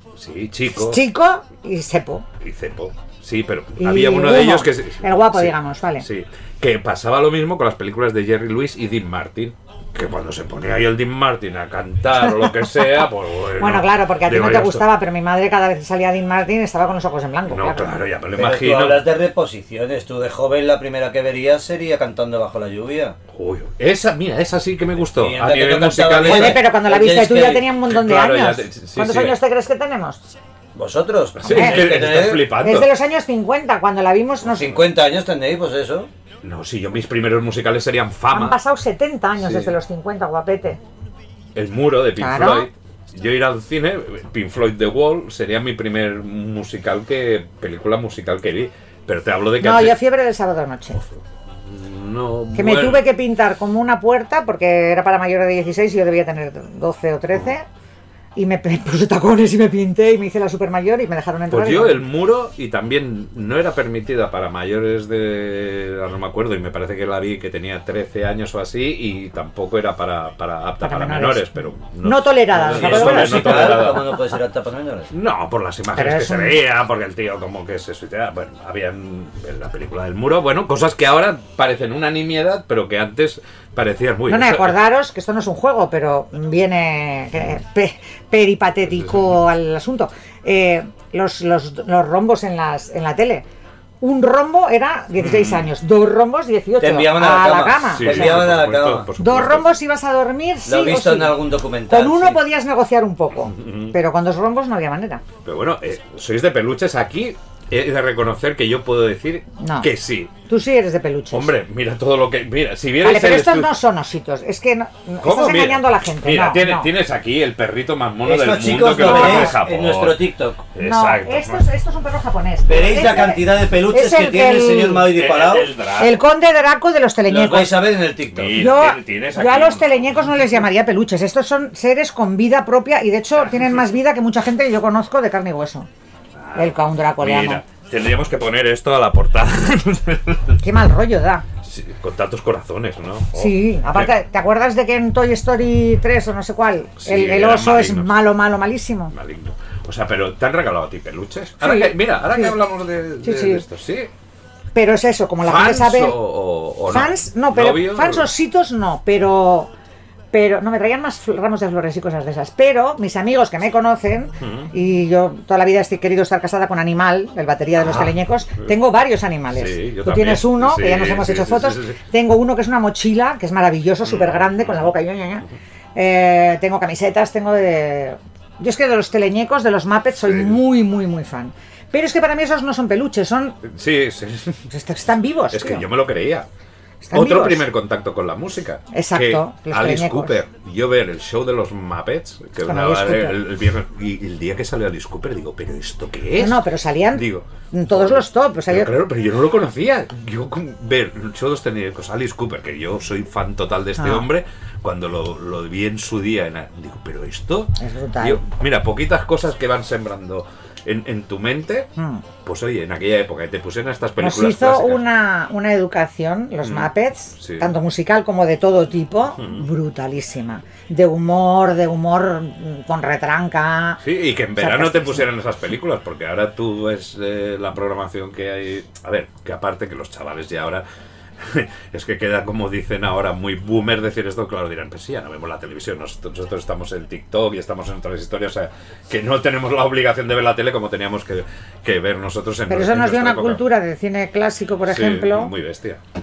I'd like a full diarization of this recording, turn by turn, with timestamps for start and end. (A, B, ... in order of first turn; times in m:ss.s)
0:00.2-0:01.1 A
0:00.7-0:02.2 B
0:02.4-0:14.9 A
0:03.8-0:06.1 B
0:13.6-0:18.0 B
0:17.5-0:19.0 A
0:18.4-0:23.2 C
0:23.3-0:26.6 A
0:25.0-0:27.7 C
0:26.2-0:30.2 B
0:27.8-0:29.4 A
0:30.8-0:32.5 C
0:31.4-0:32.9 A
0:31.5-0:34.8 B
0:34.5-0:36.1 C
0:36.4-0:38.6 A
0:38.3-0:40.8 B
0:41.6-0:50.0 A
0:42.2-0:42.7 B
0:49.6-0:51.0 B
0:51.0-0:53.1 A
0:52.6-0:57.7 B
0:58.4-1:02.0 B
1:01.5-1:14.2 A
1:10.8-1:13.9 B
1:12.7-1:15.1 C
1:15.1-1:24.8 A
1:16.0-1:16.6 B
1:24.3-1:33.4 B
1:29.0-1:29.3 A
1:34.0-1:38.4 B
1:35.2-1:35.7 A
1:36.8-1:39.1 C
1:37.9-1:39.7 A
1:39.2-1:45.2 B
1:40.6-1:42.4 C
1:43.5-1:44.0 A
1:45.4-1:50.3 A
1:49.6-1:49.9 B
1:50.5-1:51.5 B
1:51.3-1:53.8 A
1:53.0-1:56.9 B
1:55.2-2:01.7 A
1:58.2-2:00.6 C
1:59.0-1:59.5 B
2:00.8-2:05.1 B
2:02.7-2:05.7 C
2:05.1-2:06.2 A
2:06.0-2:07.8 B
2:07.3-2:08.6 C
2:08.3-2:10.5 A
2:08.6-2:15.9 B
2:16.4-2:20.6 A
2:16.6-2:17.6 B
2:20.6-2:21.5 B
2:21.6-2:24.1 A
2:23.3-2:29.1 B
2:27.0-2:28.2 A
2:29.1-2:34.1 A
2:31.6-2:32.6 B
2:33.2-2:33.6 B
2:34.8-2:36.2 B
2:35.4-2:38.3 A
2:36.9-2:39.7 B
2:40.3-3:03.6 B
2:44.4-2:44.7 A
2:47.8-2:48.7 A
2:49.5-2:52.0 A
2:54.0-2:54.9 A
3:00.2-3:00.6 A
3:03.6-3:04.6 A
3:04.7-3:05.9 B
3:05.5-3:06.5 A
3:07.0-3:07.7 B
3:07.1-3:31.9 A
3:08.9-3:10.4 B
3:12.6-3:13.4 B
3:16.4-3:18.9 B
3:24.0-3:24.3 B
3:27.8-3:28.4 B
3:32.0-3:32.2 B
3:32.4-3:35.0 A
3:34.2-3:44.0 B
3:36.6-3:37.7 A
3:39.4-3:39.7 A
3:44.0-3:50.8 A
3:44.6-3:45.3 B
3:51.4-4:03.6 A
4:02.7-4:05.5 B
4:04.9-4:06.0 A